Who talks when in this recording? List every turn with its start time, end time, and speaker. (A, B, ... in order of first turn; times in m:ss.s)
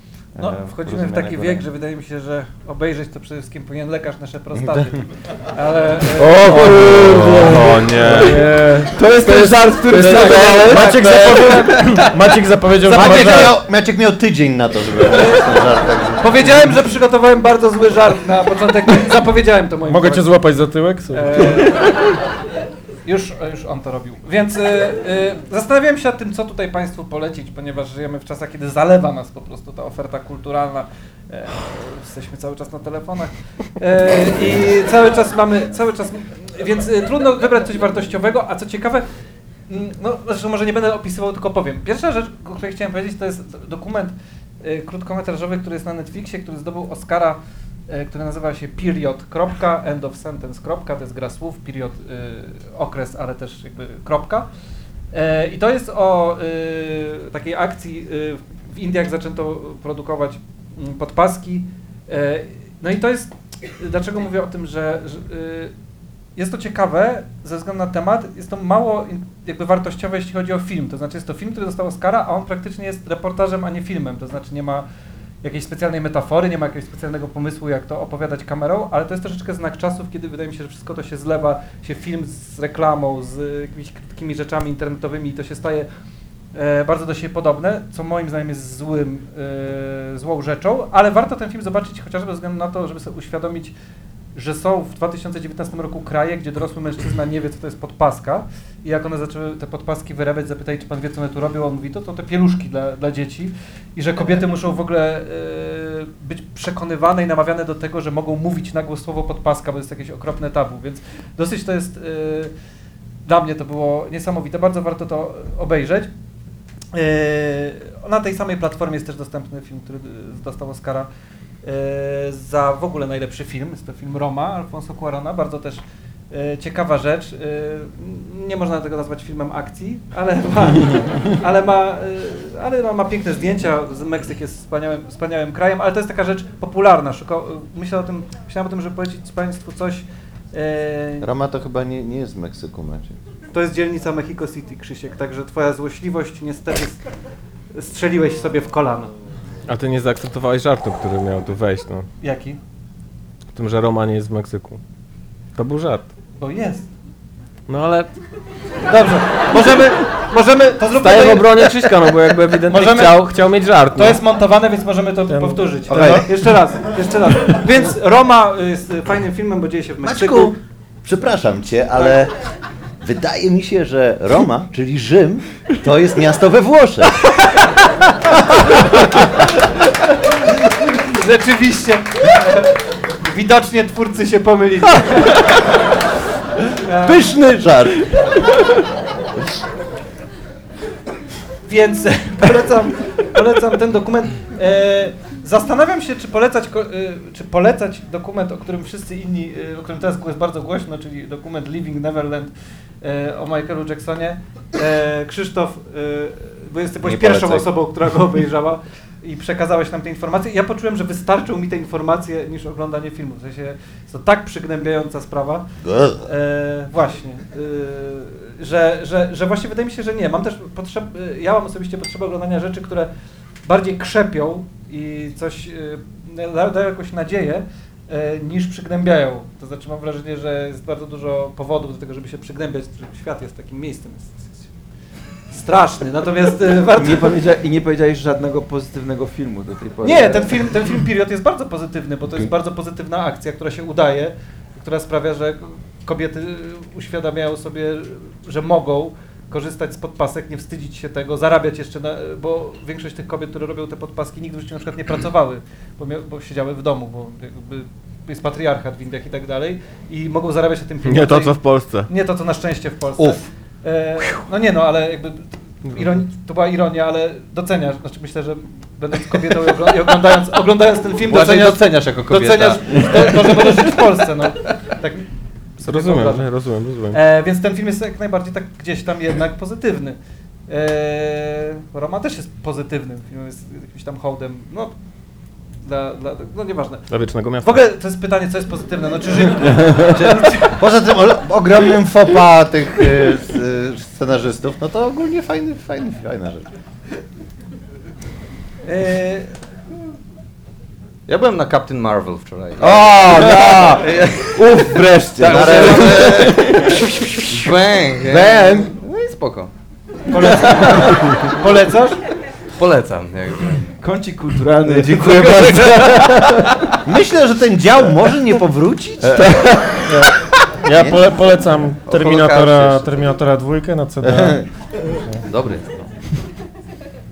0:00.3-0:01.7 A
0:00.4-0:06.5 B
0:04.6-0:04.9 C
0:06.2-0:13.6 D
0:06.5-0:08.6 E
0:08.0-0:11.8 A
0:10.1-0:12.1 B
0:12.9-0:16.5 C
0:15.1-0:15.4 B
0:16.2-0:20.3 B
0:19.9-0:21.7 D
0:21.1-0:21.9 B
0:23.0-0:39.0 B
0:39.7-0:54.5 B
0:55.1-1:05.7 B
1:06.4-1:14.9 B
1:15.4-1:25.9 B
1:26.5-1:33.7 B
1:34.4-1:52.5 B
1:53.3-1:56.1 B
1:56.9-2:01.1 B
2:01.6-2:21.3 B
2:21.2-2:23.2 C
2:23.5-2:27.1 B
2:27.7-2:29.1 B
2:29.7-2:32.1 E
2:32.2-2:32.6 B
2:33.5-2:34.8 E
2:35.6-2:36.1 E
2:36.4-2:36.9 B
2:37.7-2:38.1 E
2:38.8-2:43.3 B
2:40.9-2:44.2 E
2:44.0-2:50.6 B
2:45.3-2:46.3 D
2:46.0-2:46.2 E
2:47.3-2:47.8 D
2:50.0-2:52.4 C
2:53.0-2:57.3 C
2:58.3-2:59.3 C
3:00.8-3:05.4 B
3:06.8-3:07.2 B
3:07.0-3:08.2 C
3:11.6-3:35.7 B
3:27.0-3:27.7 C
3:35.8-3:36.2 C
3:36.2-3:43.1 B
3:43.6-3:54.7 B
3:55.5-3:57.3 B
3:57.0-4:00.7 A
4:00.0-4:35.3 B
4:21.0-4:22.1 E
4:31.3-4:33.5 F
4:35.8-4:36.5 B
4:35.8-4:37.2 E
4:37.1-4:40.2 B
4:40.7-4:45.0 B
4:45.8-4:50.6 B
4:47.1-4:47.8 E
4:50.6-4:56.7 C
4:58.8-4:59.5 B
5:01.3-5:09.7 F
5:02.8-5:04.1 C
5:04.4-5:07.0 A
5:05.4-5:08.9 C
5:10.3-5:12.2 B
5:10.8-5:11.4 F
5:12.8-5:13.9 F
5:14.0-5:16.4 A
5:15.0-5:16.8 F
5:15.5-5:16.0 C
5:17.0-5:19.7 C
5:20.0-5:24.6 D
5:20.9-5:21.3 C
5:22.1-5:23.2 F
5:24.2-5:24.7 C
5:25.4-5:26.1 F